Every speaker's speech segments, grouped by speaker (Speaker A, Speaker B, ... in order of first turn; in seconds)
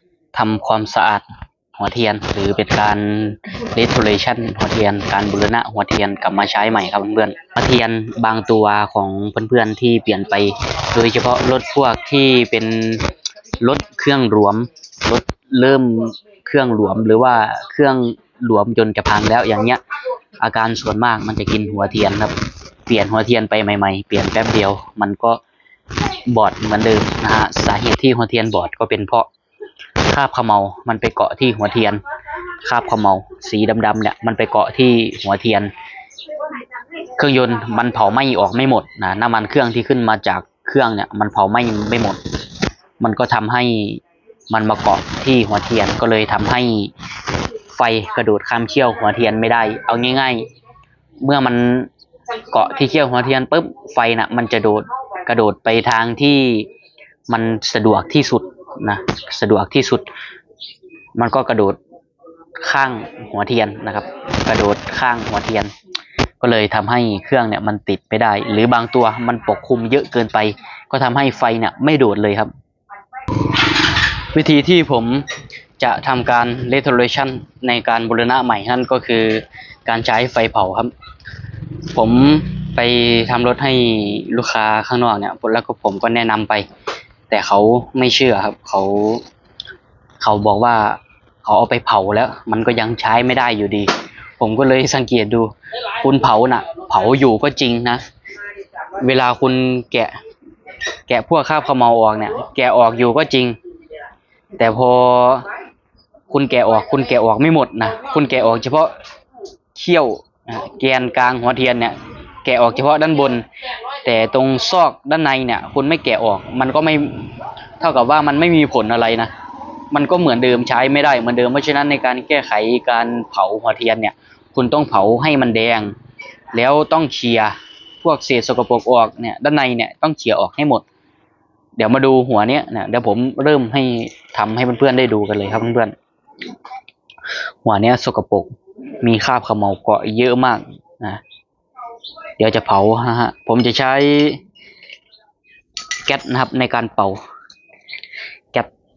Speaker A: 0.3-1.2, 1.8-13.1, 13.6-19.8, 20.4-22.3, 22.9-25.4, 26.1-29.3, 30.0-32.0, 32.6-35.7, 37.0-42.2, 43.0-46.9, 47.7-50.5, 51.2-56.7, 57.3-60.1, 61.1-61.8, 62.6-65.7, 66.4-72.5, 74.3-75.3, 75.8-80.9, 81.9-86.6, 87.3-89.2, 90.2-98.0, 99.0-100.1, 101.1-103.6, 104.5-105.5, 106.3-108.9, 109.7-113.5, 114.0-119.3, 119.9-125.9, 126.5-130.8, 131.8-135.9, 137.6-141.2, 142.4-144.4, 146.0-147.2